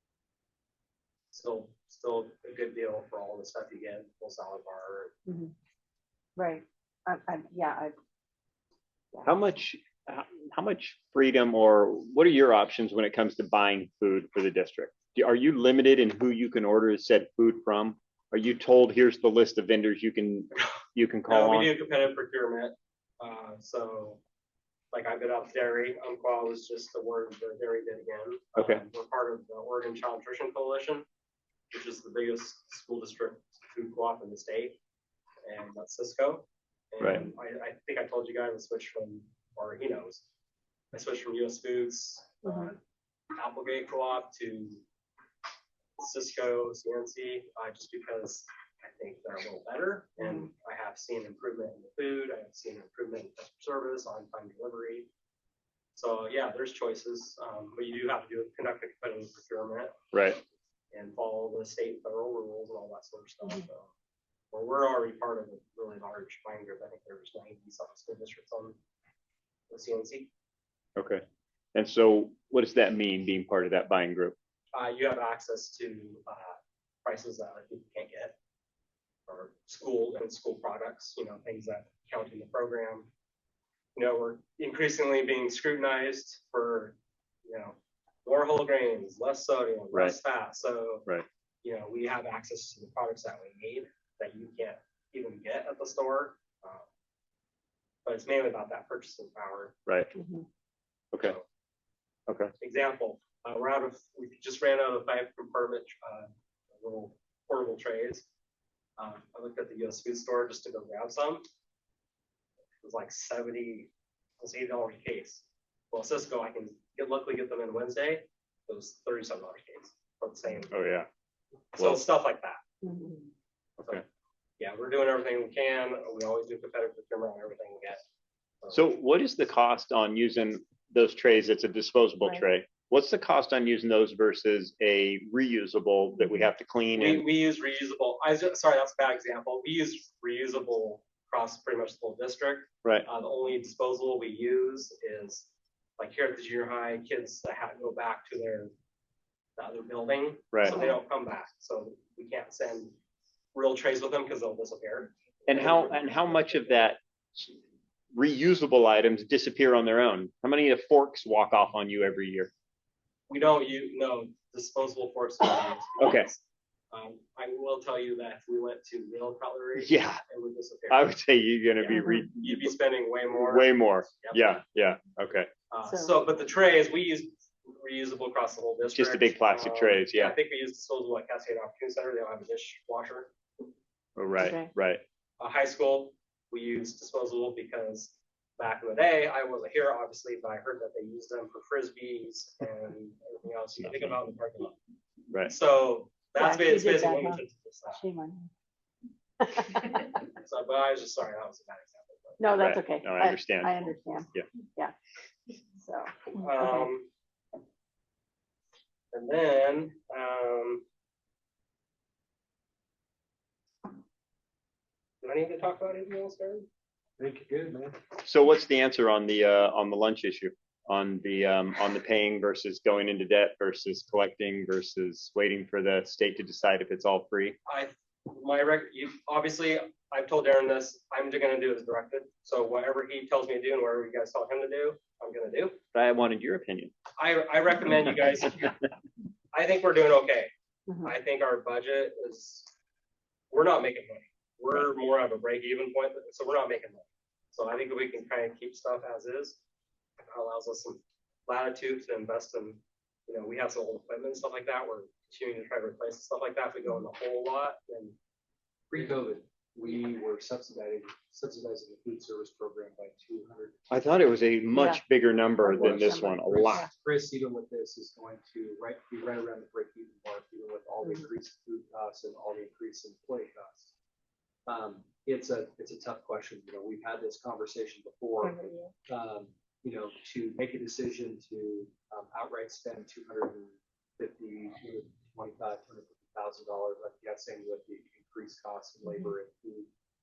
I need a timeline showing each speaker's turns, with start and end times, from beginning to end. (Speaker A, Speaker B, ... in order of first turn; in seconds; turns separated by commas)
Speaker A: 1.3-5.2, Speaker B: 5.3-5.5, Speaker B: 6.4-8.0, Speaker C: 9.2-21.7, Speaker A: 21.3-24.2, Speaker A: 24.9-31.1, Speaker C: 28.6-28.8, Speaker A: 31.7-34.8, Speaker A: 35.4-40.2, Speaker C: 37.0-37.2, Speaker A: 40.9-42.8, Speaker A: 43.4-44.8, Speaker A: 46.0-55.1, Speaker A: 56.0-60.0, Speaker C: 60.1-60.4, Speaker A: 60.9-63.9, Speaker A: 64.5-68.8, Speaker A: 69.7-70.3, Speaker C: 71.0-71.2, Speaker C: 71.8-74.4, Speaker A: 74.7-78.4, Speaker A: 79.3-83.1, Speaker A: 84.0-91.1, Speaker A: 91.6-96.9, Speaker A: 98.0-99.8, Speaker B: 100.1-100.5, Speaker A: 101.2-101.5, Speaker C: 102.3-102.5, Speaker A: 102.6-106.3, Speaker A: 106.8-108.3, Speaker A: 109.0-111.4, Speaker A: 112.8-120.7, Speaker C: 120.7-121.1, Speaker A: 121.7-122.6, Speaker C: 121.8-122.0, Speaker B: 122.8-123.3, Speaker A: 124.6-128.0, Speaker A: 128.6-128.9, Speaker C: 128.7-137.3, Speaker A: 137.0-148.7, Speaker A: 149.6-152.9, Speaker C: 150.5-150.8, Speaker A: 153.5-156.9, Speaker C: 155.5-157.6, Speaker C: 158.1-162.5, Speaker A: 163.3-171.1, Speaker C: 166.0-166.3, Speaker C: 169.8-170.2, Speaker C: 170.9-172.7, Speaker A: 171.8-174.5, Speaker B: 172.0-172.2, Speaker C: 173.3-175.5, Speaker A: 175.7-183.3, Speaker B: 175.8-176.1, Speaker C: 178.9-180.4, Speaker C: 184.2-185.0, Speaker B: 184.4-184.7, Speaker A: 185.4-194.8, Speaker C: 193.8-194.2, Speaker A: 195.4-198.0, Speaker B: 196.3-198.5, Speaker B: 199.4-200.1, Speaker A: 200.2-202.5, Speaker B: 202.4-204.9, Speaker C: 202.6-204.5, Speaker B: 205.7-206.9, Speaker A: 206.3-207.1, Speaker A: 209.1-210.8, Speaker A: 215.2-216.7, Speaker D: 217.2-218.0, Speaker C: 218.2-227.6, Speaker A: 227.7-235.8, Speaker C: 235.9-236.9, Speaker A: 237.2-238.8, Speaker A: 239.5-240.5, Speaker A: 241.0-242.7, Speaker A: 243.5-249.6, Speaker A: 250.2-258.2, Speaker D: 258.9-263.8, Speaker C: 263.9-266.8, Speaker B: 264.7-265.0, Speaker B: 265.6-266.9, Speaker D: 265.8-273.9, Speaker D: 274.7-278.6, Speaker B: 278.4-278.9, Speaker D: 279.1-289.9